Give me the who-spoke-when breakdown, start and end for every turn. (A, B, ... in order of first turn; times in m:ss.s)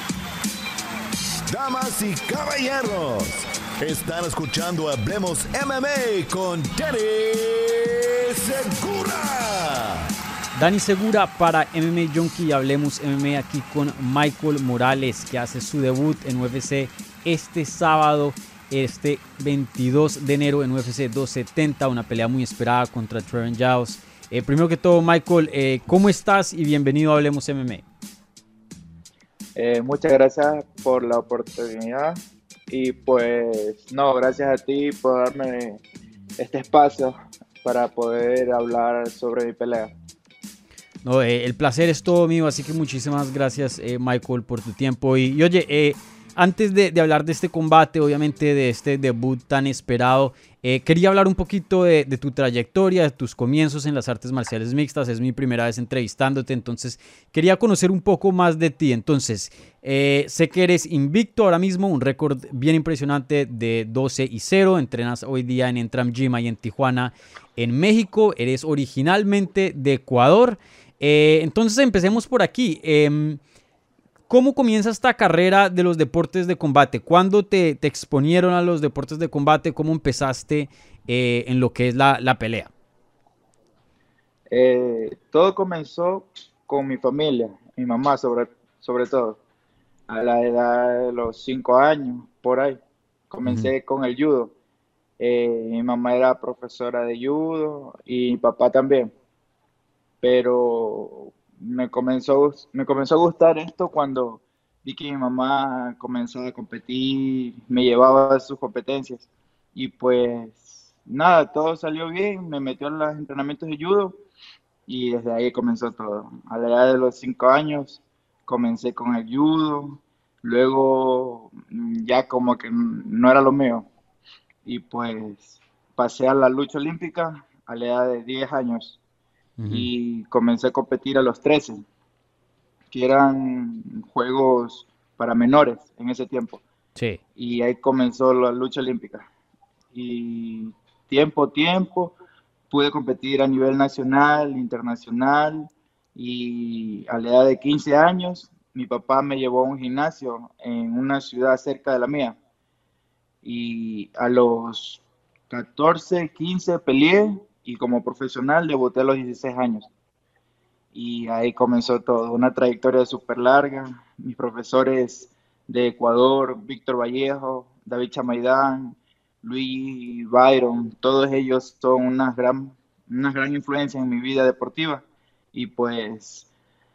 0:01.5-0:10.0 A
0:10.5-0:27.8 B
0:29.6-0:35.8 C
0:36.4-0:39.9 C
0:41.0-1:13.4 B
1:14.3-1:22.7 B
1:24.5-1:29.4 C
1:30.1-1:32.8 C
1:33.3-1:34.5 C
1:33.4-1:33.7 B
1:35.2-1:39.1 C
1:40.2-1:54.2 C
1:54.8-2:03.9 C
2:04.6-2:09.0 C
2:09.6-2:09.9 B
2:09.7-2:11.8 C
2:12.9-2:16.6 C
2:17.4-2:19.3 C
2:19.9-2:22.1 C
2:22.7-2:32.4 C
2:33.4-2:39.9 C
2:40.9-2:56.5 C